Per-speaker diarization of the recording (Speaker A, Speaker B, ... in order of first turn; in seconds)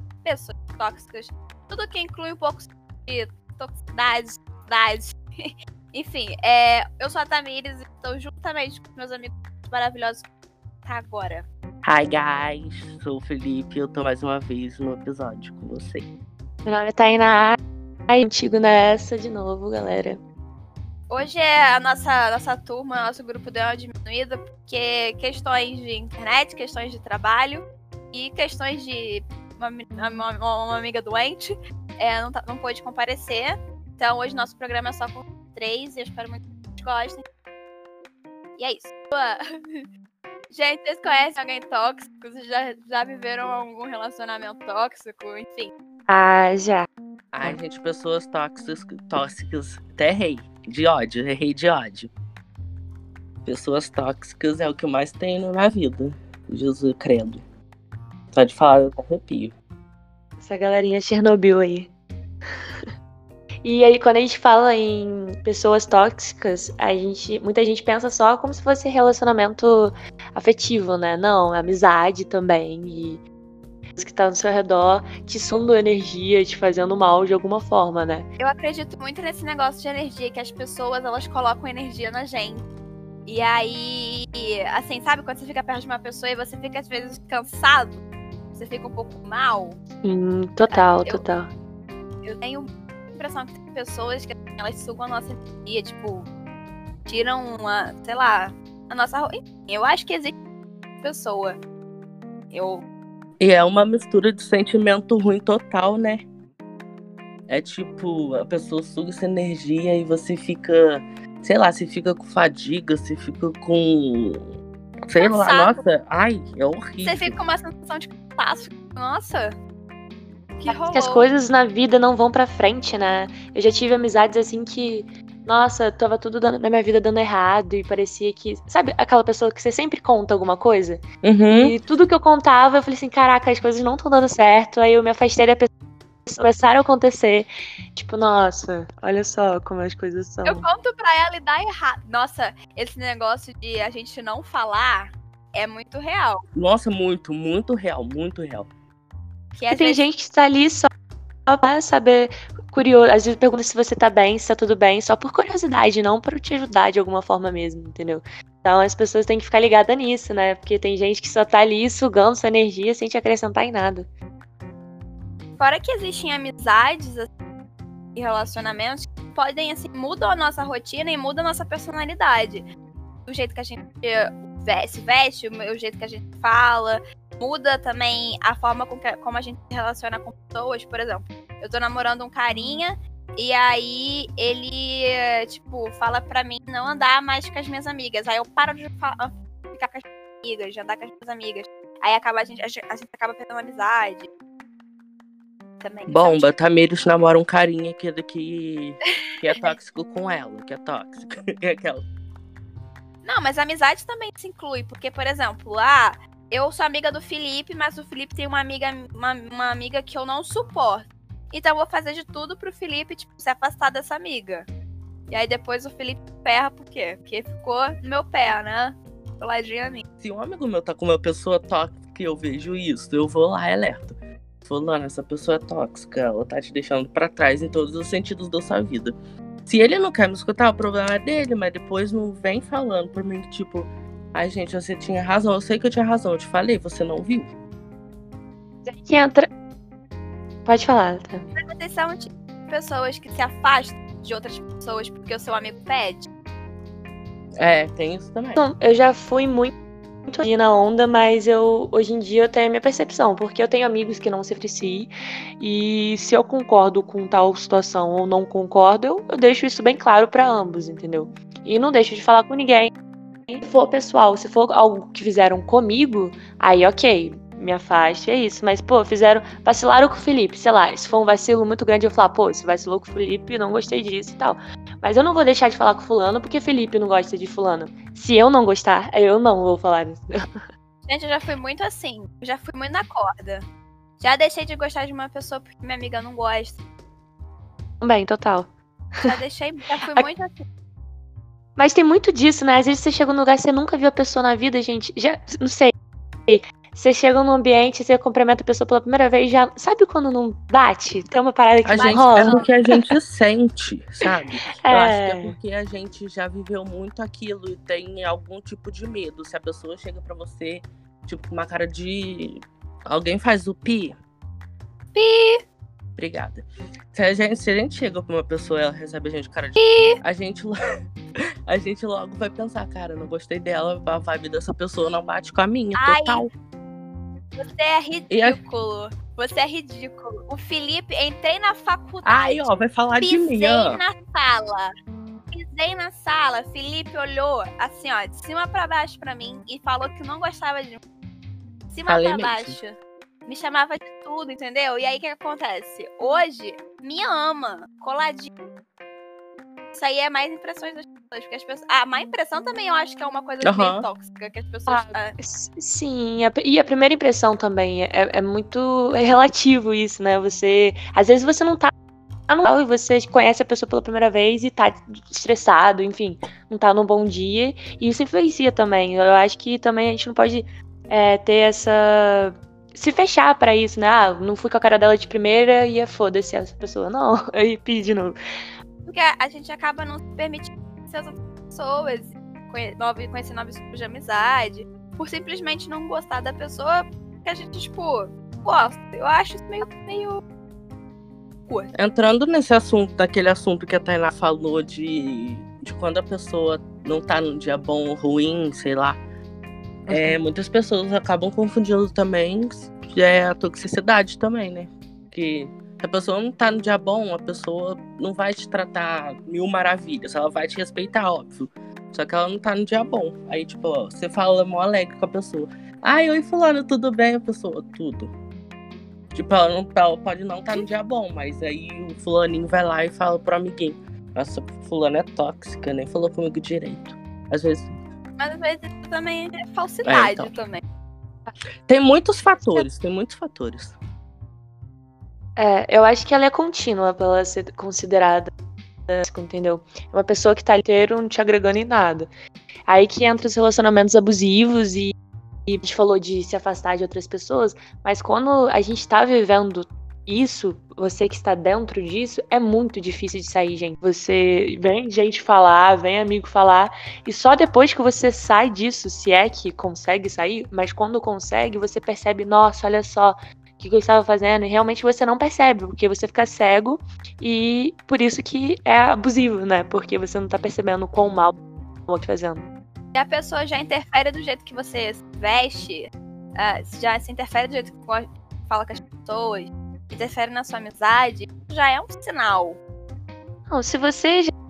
Speaker A: 0.2-10.2, 10.8-11.5, 21.1-37.2, 38.6-39.9, 40.5-45.7, 78.4-82.6, 83.3-88.0, 88.5-89.8, 90.7-91.2, 92.2-96.3, 97.1-100.3, 101.0-101.6, 102.5-102.8, 115.2-115.8, 117.0-119.6, 120.6-121.3, 140.4-146.4, 149.6-150.0, 165.6-167.3, 168.2-172.7, 173.3-194.3, 195.8-196.5, 203.2-214.7, 215.3-220.0, 241.6-246.3, 281.1-283.7, 284.2-286.8, 289.3-290.6, 302.0-302.7, 315.1-315.6, 319.8-320.2, 325.9-326.4, 327.6-334.9, 335.5-341.0, 341.9-348.5, 349.9-355.3, 379.1-390.4, 428.4-430.8, 473.1-482.8
Speaker B: 11.8-16.1, 47.3-52.1, 53.5-57.4, 58.3-59.5, 103.4-106.2, 107.5-114.4, 115.1-117.4, 131.2-131.8, 146.6-148.7, 196.1-202.1, 220.2-224.1, 224.7-229.1, 229.7-237.5, 247.6-248.6, 301.8-314.2, 316.2-320.7, 321.7-326.5, 328.3-328.6, 332.2-334.0, 342.1-342.8, 353.6-354.1, 391.9-399.2, 400.1-418.3, 419.3-427.9, 430.0-430.5, 431.9-434.0
Speaker C: 16.6-17.6, 18.1-20.2, 46.1-46.9, 60.4-61.9, 63.6-73.2, 74.0-78.3, 90.0-91.5, 120.7-135.7, 136.3-140.7, 149.7-150.9, 151.5-164.1, 238.8-239.5, 240.7-241.5, 248.6-249.7, 250.3-262.9, 263.5-280.3, 288.0-289.4, 291.8-295.9, 296.5-303.0, 304.8-305.6, 354.9-361.9, 362.5-378.4, 400.1-400.4, 435.6-438.5, 439.1-442.3, 442.9-445.2, 445.7-472.7, 483.7-484.5